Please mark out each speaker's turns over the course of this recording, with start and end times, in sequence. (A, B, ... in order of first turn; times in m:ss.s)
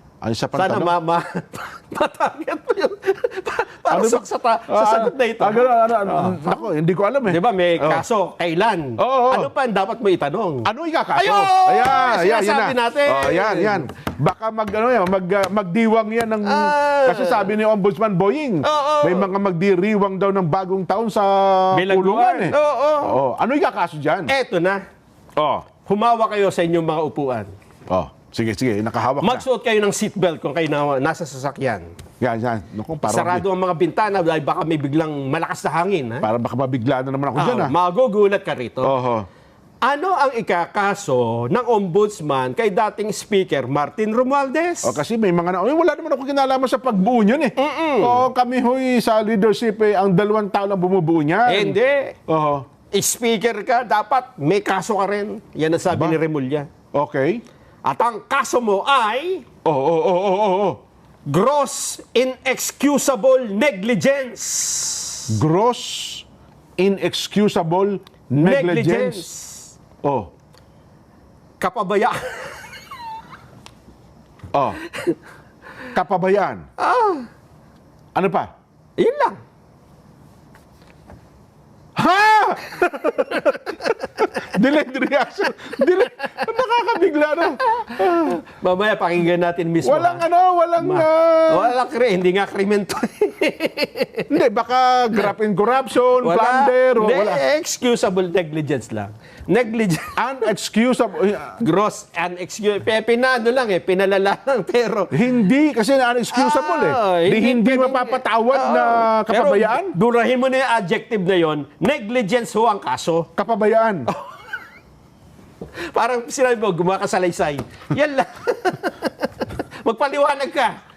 0:00.2-0:00.9 A
0:00.6-0:06.6 B
0:03.9-0:08.0 A
0:07.3-0:13.8 B
0:09.0-0:09.5 A
0:10.6-0:24.3 A
0:16.4-0:17.5 B
0:18.6-0:19.3 B
0:21.7-0:23.1 B
0:24.3-0:24.8 B
0:25.4-0:25.7 A
0:25.8-0:27.5 B
0:27.9-0:29.4 A
0:29.2-0:31.9 B
0:32.2-0:33.4 A
0:33.1-0:36.2 B
0:36.2-0:37.7 A
0:37.4-0:38.9 B
0:38.8-0:39.2 A
0:39.8-0:45.0 B
0:44.8-0:51.8 A
0:47.6-0:48.2 B
0:51.5-0:52.1 B
0:52.3-0:52.6 A
0:52.9-0:56.7 B
0:55.9-0:56.2 A
0:56.9-0:57.4 A
0:57.8-0:59.4 B
0:59.6-1:00.8 A
1:01.3-1:05.2 B
1:05.3-1:06.2 A
1:06.8-1:09.2 A
1:08.4-1:09.7 B
1:10.0-1:10.3 A
1:11.6-1:12.8 B
1:14.5-1:14.8 A
1:14.9-1:15.2 B
1:15.9-1:16.6 A
1:16.8-1:17.3 B
1:18.1-1:18.5 A
1:19.0-1:19.4 B
1:22.0-1:28.4 A
1:23.4-1:23.9 B
1:27.6-1:30.2 B
1:29.8-1:31.7 A
1:30.8-1:34.2 B
1:34.3-1:37.4 A
1:36.2-1:40.1 B
1:40.2-1:41.6 A
1:41.6-1:45.2 B
1:45.1-1:50.0 A
1:46.3-1:53.3 B
1:53.4-1:54.1 A
1:54.1-1:54.5 B
1:55.9-2:00.8 B